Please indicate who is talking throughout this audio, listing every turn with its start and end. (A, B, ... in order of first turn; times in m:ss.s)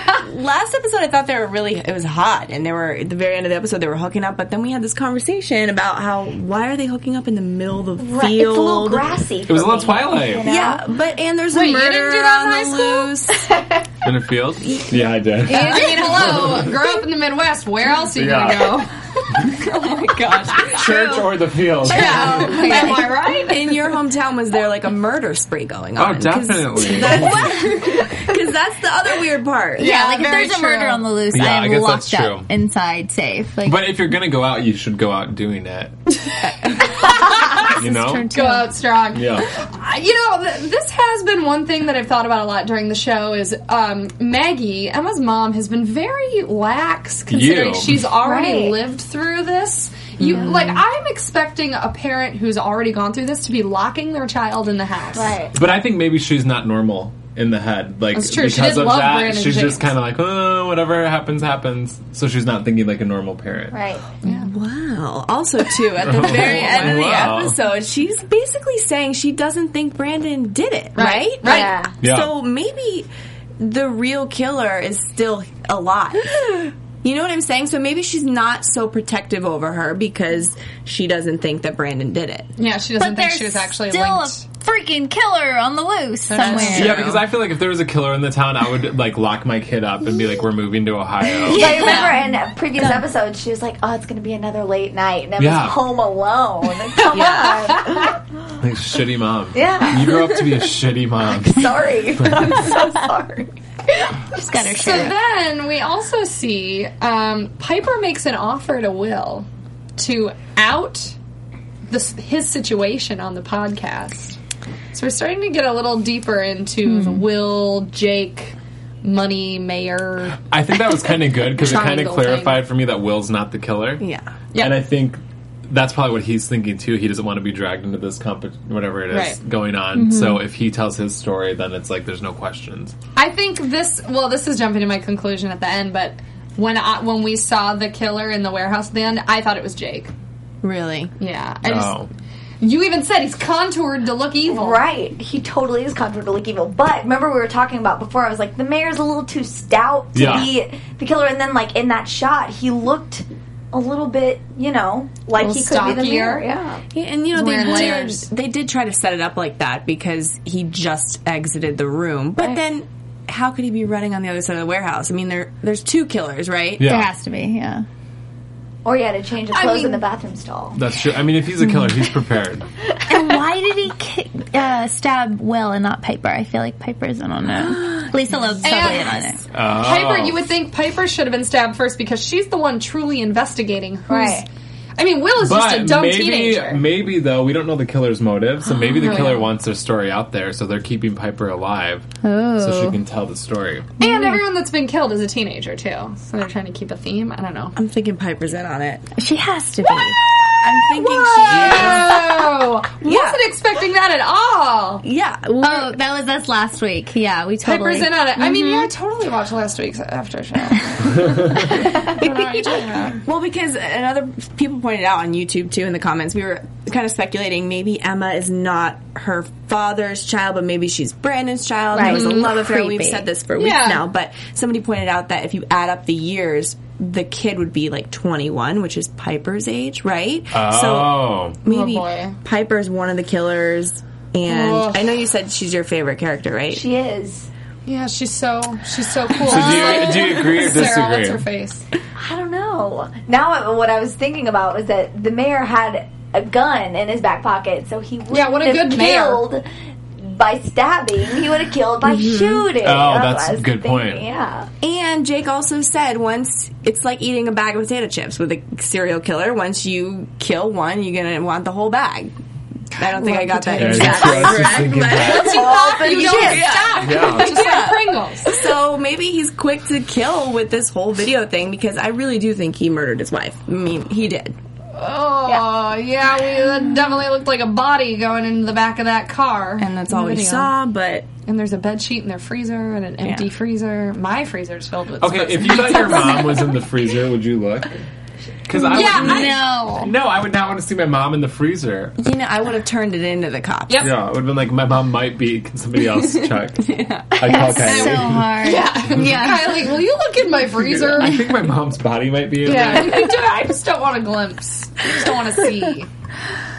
0:00.1-0:09.1 A
0:08.0-0:10.8 B
0:09.5-0:10.4 C
0:10.4-0:13.5 A
0:11.5-0:13.1 D
0:13.4-0:13.8 B
0:14.0-0:16.7 C
0:14.6-0:15.0 A
0:15.4-0:16.4 E
0:15.5-0:19.8 D
0:18.1-0:18.8 C
0:19.5-0:21.3 A
0:20.6-0:22.7 C
0:21.8-0:23.8 D
0:21.9-0:23.1 E
0:22.0-0:30.0 A
0:26.0-0:27.7 C
0:29.8-0:33.9 E
0:29.8-0:31.0 D
0:31.3-0:32.5 C
0:33.6-0:36.0 C
0:36.4-0:36.8 A
0:36.7-0:55.4 D
0:37.0-0:38.7 E
0:37.6-0:38.3 C
0:39.1-0:39.5 C
0:47.3-0:48.0 C
0:48.2-0:48.8 B
0:50.2-0:50.8 A
0:55.1-0:55.6 B
0:55.5-1:03.8 C
0:58.1-0:59.9 D
1:03.7-1:04.0 B
1:04.2-1:04.5 D
1:04.3-1:13.1 A
1:06.0-1:07.6 C
1:10.9-1:11.8 D
1:11.4-1:11.9 B
1:12.0-1:12.3 C
1:13.6-1:22.5 A
1:22.6-1:24.4 D
1:23.0-1:27.1 E
1:26.3-1:27.1 D
1:26.4-1:27.2 A
1:26.7-1:31.9 C
1:31.4-1:32.2 E
1:31.5-1:38.2 B
1:31.8-1:32.0 D
1:35.4-1:35.8 C
1:37.1-1:37.8 A
1:37.2-1:37.8 D
1:38.6-1:42.5 C
1:39.5-1:40.2 B
1:41.4-1:44.4 B
1:44.3-1:45.2 E
1:44.7-1:51.2 D
1:51.9-1:54.4 D
1:54.9-2:00.4 D
1:56.8-1:57.2 E
2:00.4-2:04.0 C
2:01.4-2:02.6 D
2:04.0-2:04.3 A
2:04.5-2:04.8 D
2:04.6-2:12.9 C
2:09.1-2:09.4 D
2:09.9-2:10.4 E
2:13.2-2:20.1 D
2:20.6-2:21.1 A
2:21.2-2:22.0 D
2:21.6-2:22.1 C
2:22.6-2:24.8 D
2:24.5-2:36.8 B
2:30.1-2:30.5 C
2:35.4-2:36.5 D
2:36.9-2:46.8 A
2:37.3-2:38.3 D
2:46.8-2:47.1 C
2:46.8-2:47.8 E
2:48.8-2:50.8 B
2:49.5-2:50.0 D
2:50.7-2:52.6 C
2:53.1-2:59.4 E
2:58.6-3:06.8 D
2:59.5-3:00.5 C
3:04.1-3:04.4 B
3:05.4-3:13.9 C
3:09.0-3:09.5 D
3:12.2-3:13.0 E
3:14.0-3:17.7 D
3:14.0-3:14.4 E
3:17.8-3:19.1 A
3:19.2-3:20.2 E
3:20.6-3:22.4 A
3:20.8-3:25.0 D
3:21.5-3:22.1 C
3:23.0-3:23.4 A
3:25.0-3:26.0 A
3:25.6-3:28.9 E
3:27.6-3:33.2 D
3:32.1-3:32.8 E
3:33.2-3:56.8 A
3:41.9-3:42.3 B
3:42.0-3:43.3 E
3:42.1-3:42.5 D
3:43.5-3:44.0 D
3:50.5-3:51.6 C
3:51.6-3:52.4 D
3:54.4-3:55.1 D
3:56.7-3:57.5 B
3:57.8-4:01.8 D
3:59.4-4:01.4 C
3:59.7-4:00.2 E
4:02.2-4:09.7 B
4:08.3-4:09.5 D
4:10.2-4:14.7 B
4:12.0-4:12.7 A
4:12.7-4:14.2 C
4:14.8-4:22.3 A
4:23.0-4:34.6 A
4:23.0-4:28.6 D
4:23.7-4:24.3 E
4:23.8-4:25.6 C
4:25.3-4:27.0 B
4:27.0-4:27.6 C
4:34.9-4:40.7 D
4:39.8-4:41.3 A
4:41.4-4:46.7 D
4:43.2-4:43.5 A
4:45.2-4:48.0 C
4:48.6-4:52.2 C
4:48.8-4:50.1 E
4:48.8-4:50.1 D
4:52.2-4:54.1 A
4:53.9-4:54.1 D
4:54.0-4:58.6 C
4:56.1-4:57.7 A
4:57.4-4:59.8 E
4:57.8-5:01.4 D
5:00.8-5:03.4 C
5:02.6-5:06.1 D